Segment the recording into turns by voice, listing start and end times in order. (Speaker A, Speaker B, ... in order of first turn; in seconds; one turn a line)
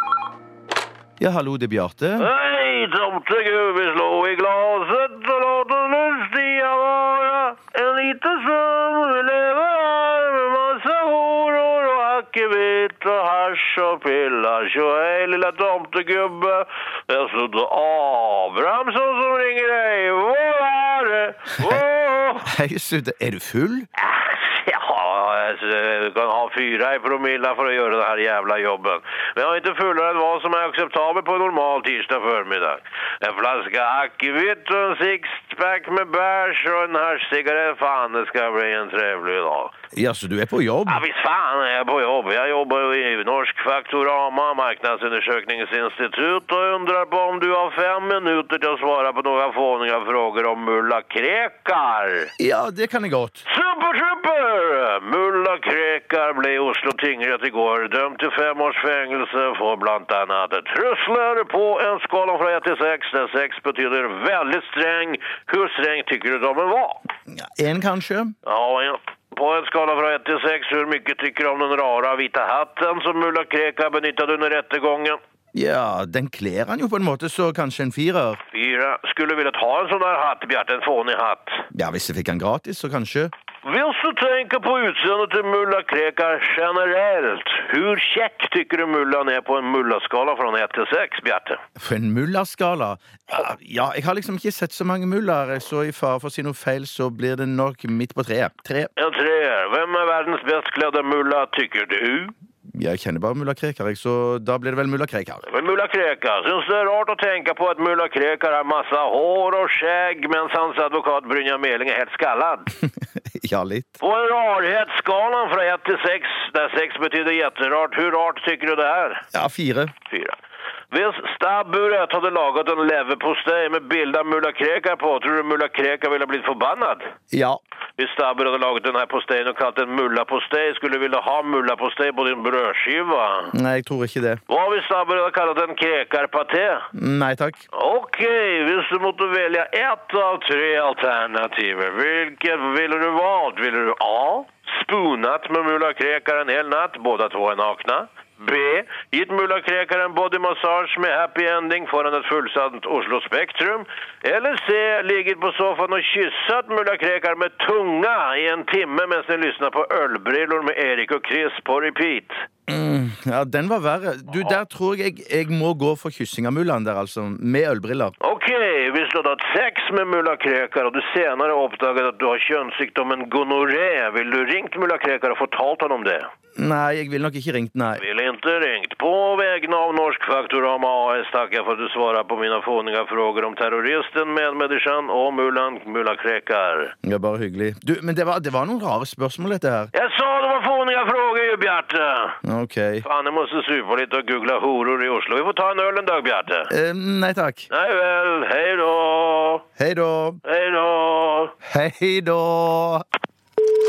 Speaker A: 1.2-2.3
Speaker B: 2.2-22.5
Speaker A: 22.4-23.9
Speaker B: 24.0-39.7
Speaker A: 39.9-41.0
Speaker B: 40.9-52.3
Speaker A: 52.4-53.4
Speaker B: 53.5-67.0
Speaker A: 67.3-68.3
Speaker B: 68.4-75.2
Speaker A: 75.5-78.4
Speaker B: 78.5-81.7
Speaker A: 81.7-83.3
Speaker B: 83.6-91.6
Speaker A: 91.8-98.9
Speaker B: 99.0-102.3
Speaker A: 102.7-105.5
Speaker B: 105.5-112.7
Speaker A: 113.3-113.9
Speaker B: 114.0-119.2
Speaker A: 119.3-119.9
Speaker B: 120.1-120.3
Speaker B: 120.9-127.1
Speaker A: 127.3-127.6
Speaker B: 128.0-133.5
Speaker A: 133.5-134.4
Speaker B: 134.5-136.8
Speaker A: 136.9-137.6
Speaker B: 137.7-162.4
Speaker A: 162.7-168.1
Speaker B: 168.2-176.3
Speaker A: 176.6-178.0
Speaker B: 178.0-186.9
Speaker A: 187.0-189.9
Speaker B: 189.9-192.4
Speaker A: 192.4-193.0
Speaker B: 193.0-196.7
Speaker A: 196.7-197.7
Speaker B: 197.7-199.7
Speaker A: 199.8-200.4
Speaker B: 200.4-201.5
Speaker A: 201.7-203.0